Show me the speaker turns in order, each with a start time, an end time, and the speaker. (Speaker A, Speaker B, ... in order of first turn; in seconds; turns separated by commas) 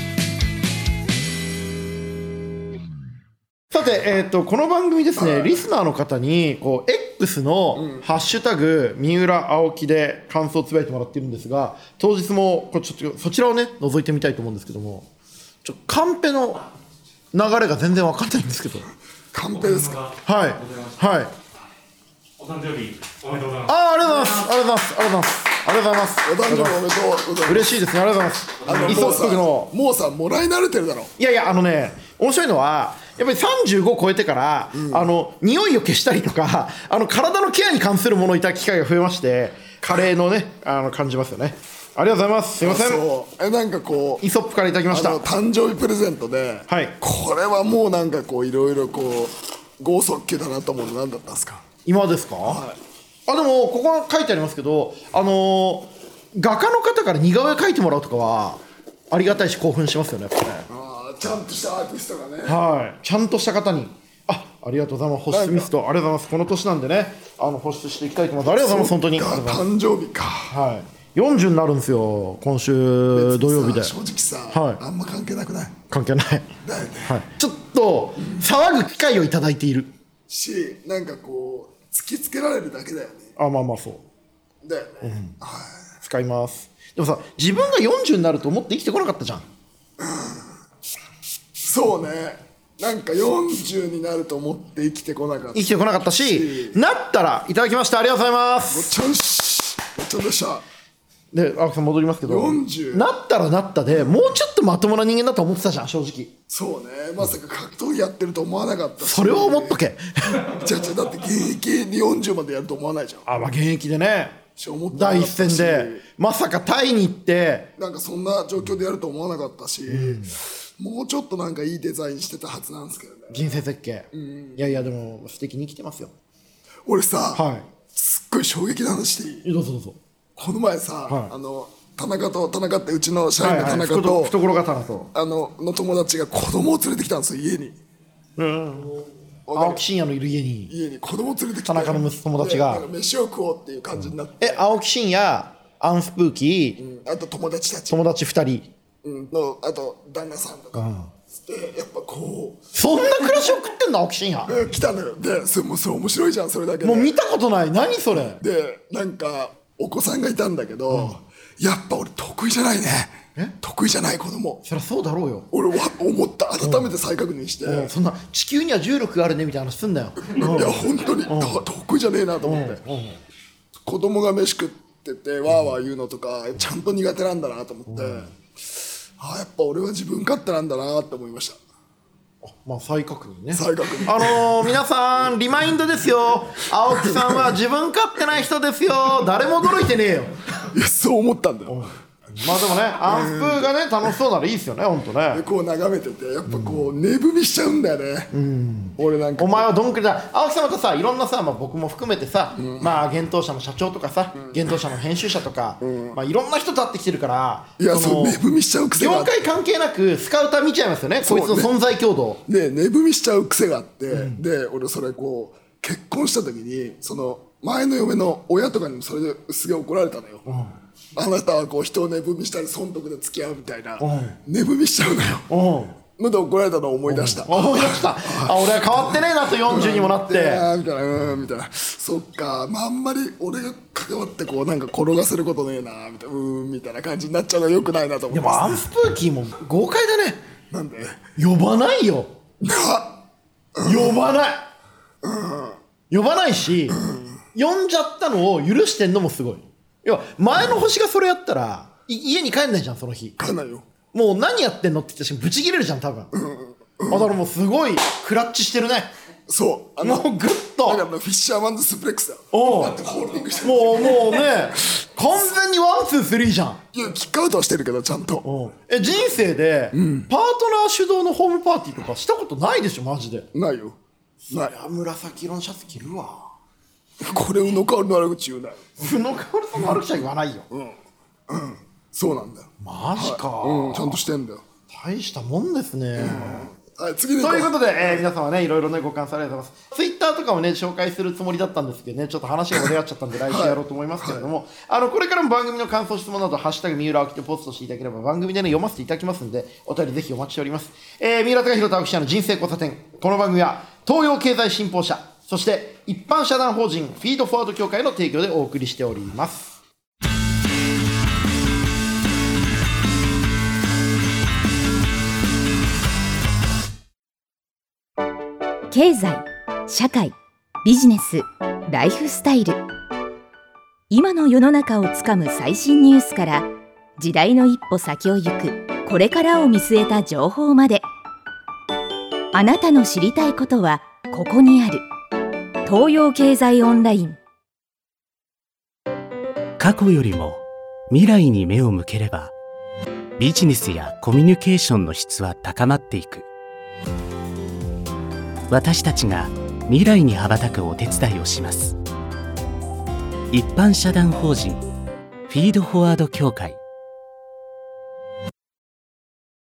Speaker A: 3.7-15.1, Speaker B: 5.2-5.6, Speaker B: 7.8-8.1, Speaker A: 15.6-16.7, Speaker A: 17.3-18.9, Speaker B: 19.3-20.0, Speaker C: 19.5-21.1, Speaker A: 20.2-21.3, Speaker C: 22.4-24.5, Speaker A: 23.6-26.8, Speaker B: 26.2-27.8, Speaker A: 27.4-29.7, Speaker B: 28.6-31.1, Speaker C: 28.7-29.0, Speaker A: 31.2-43.0, Speaker B: 34.7-35.1, Speaker B: 42.6-44.2, Speaker A: 44.2-45.2, Speaker B: 44.9-51.6, Speaker A: 46.7-47.0, Speaker A: 51.9-52.6, Speaker B: 52.4-52.8, Speaker A: 53.3-60.7, Speaker B: 60.7-62.6, Speaker A: 62.4-69.7, Speaker B: 65.3-65.7, Speaker B: 68.5-70.5, Speaker A: 70.5-73.9, Speaker B: 73.1-75.8, Speaker A: 74.5-74.8, Speaker A: 75.9-79.9, Speaker B: 76.6-77.1, Speaker B: 80.3-83.3, Speaker A: 83.4-84.0, Speaker B: 84.6-85.8, Speaker A: 85.0-85.4, Speaker A: 86.0-89.4, Speaker B: 90.0-90.5, Speaker B: 91.6-96.8, Speaker A: 95.5-98.9, Speaker B: 98.7-100.7, Speaker A: 101.3-106.3, Speaker B: 102.2-103.1, Speaker B: 106.5-109.8, Speaker A: 109.0-110.5, Speaker B: 110.4-113.2, Speaker A: 113.2-114.4, Speaker B: 114.6-116.0, Speaker A: 114.9-117.7, Speaker B: 117.8-123.5, Speaker A: 119.9-120.3, Speaker A: 123.3-126.1, Speaker B: 124.1-124.8, Speaker B: 126.9-127.4, Speaker A: 127.3-127.7, Speaker B: 127.9-129.4, Speaker A: 129.4-130.0, Speaker B: 130.4-134.4, Speaker A: 133.4-135.1, Speaker B: 135.1-137.8, Speaker A: 138.4-138.9, Speaker B: 139.5-139.8, Speaker A: 139.5-140.7, Speaker B: 140.7-144.7, Speaker A: 141.7-142.9, Speaker A: 144.4-146.8, Speaker B: 146.8-148.0, Speaker A: 147.9-148.7, Speaker B: 149.0-153.5, Speaker A: 150.8-151.1, Speaker A: 152.7-154.6, Speaker B: 154.5-157.2, Speaker A: 156.8-158.4, Speaker B: 158.3-164.6, Speaker A: 160.9-161.2, Speaker A: 164.7-165.5, Speaker B: 165.5-167.9, Speaker A: 166.6-166.9, Speaker A: 167.7-171.6, Speaker B: 170.3-172.8, Speaker A: 172.4-173.2, Speaker B: 173.9-178.3, Speaker A: 177.9-178.3, Speaker B: 179.2-181.6, Speaker A: 182.4-190.4, Speaker B: 183.5-184.7, Speaker B: 186.9-187.5, Speaker B: 190.7-191.8, Speaker A: 191.7-195.4, Speaker B: 193.1-193.7, Speaker B: 195.3-198.3, Speaker A: 196.5-196.9, Speaker A: 198.3-208.4, Speaker B: 199.0-199.7, Speaker B: 202.6-202.9, Speaker B: 205.8-206.2, Speaker B: 207.8-209.3, Speaker A: 209.0-212.4, Speaker B: 211.2-211.7, Speaker B: 212.5-220.4, Speaker A: 214.1-214.4, Speaker A: 220.4-220.8, Speaker B: 221.2-225.5, Speaker A: 224.0-224.4, Speaker A: 225.5-226.0, Speaker B: 226.2-238.8, Speaker A: 227.1-230.7, Speaker A: 238.3-240.4, Speaker B: 240.7-241.2, Speaker A: 241.4-242.3, Speaker B: 242.6-243.2, Speaker B: 243.8-244.2, Speaker A: 243.8-244.7, Speaker B: 245.2-245.8, Speaker A: 246.1-247.0, Speaker A: 247.5-253.4, Speaker B: 253.4-253.9, Speaker A: 254.1-256.3, Speaker B: 256.3-257.3, Speaker A: 257.1-259.1, Speaker B: 259.5-260.3, Speaker A: 260.0-261.1, Speaker B: 260.8-264.5, Speaker A: 262.5-263.0, Speaker A: 263.6-266.8, Speaker B: 266.9-268.5, Speaker A: 268.4-273.5, Speaker B: 269.9-270.3, Speaker B: 273.5-274.0, Speaker A: 274.5-276.5, Speaker B: 274.5-274.8, Speaker B: 277.2-279.0, Speaker A: 279.0-280.7, Speaker B: 280.7-281.0, Speaker B: 281.5-284.6, Speaker A: 282.8-284.2, Speaker A: 284.9-286.7, Speaker B: 286.2-288.2, Speaker A: 287.4-309.8, Speaker B: 293.5-294.5, Speaker D: 318.9-322.8, Speaker D: 324.1-331.0, Speaker D: 332.5-335.0, Speaker D: 335.8-337.4, Speaker E: 339.8-342.5, Speaker E: 343.4-346.5, Speaker E: 348.7-352.0, Speaker E: 353.5-354.9, Speaker E: 355.5-356.8